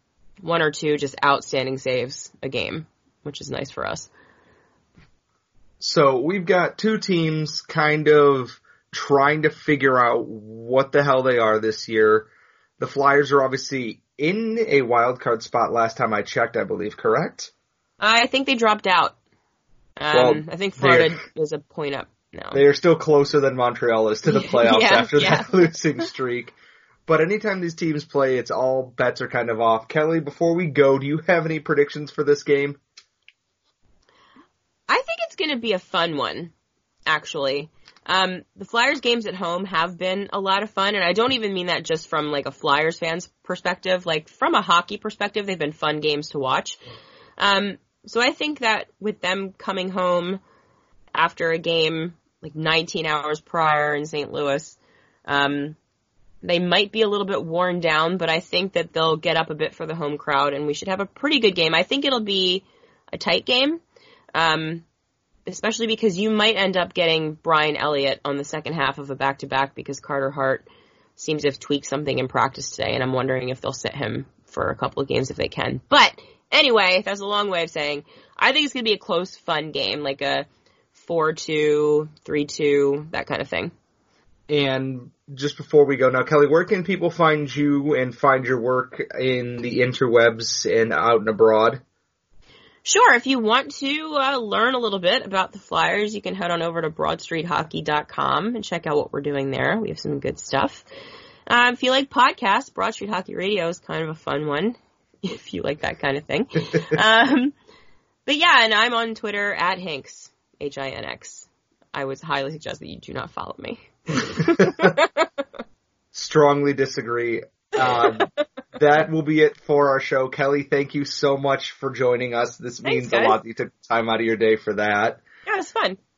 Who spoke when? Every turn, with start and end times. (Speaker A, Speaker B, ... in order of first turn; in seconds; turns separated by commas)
Speaker A: 0.4-4.1, Speaker B: 5.8-12.3, Speaker B: 12.8-17.5, Speaker A: 18.0-19.1, Speaker A: 20.0-22.6, Speaker B: 20.1-21.1, Speaker B: 22.5-26.5, Speaker A: 24.2-25.7, Speaker B: 27.1-32.8, Speaker A: 34.9-36.5, Speaker A: 37.0-46.8, Speaker A: 47.4-50.4, Speaker A: 51.1-55.8, Speaker A: 56.4-63.8, Speaker A: 64.3-64.8, Speaker A: 65.5-70.7, Speaker A: 71.2-83.7, Speaker B: 84.5-91.8, Speaker A: 92.8-100.8, Speaker A: 101.5-107.5, Speaker A: 108.2-115.2, Speaker B: 114.5-114.9, Speaker B: 116.1-125.2, Speaker A: 122.8-123.4, Speaker A: 125.5-126.0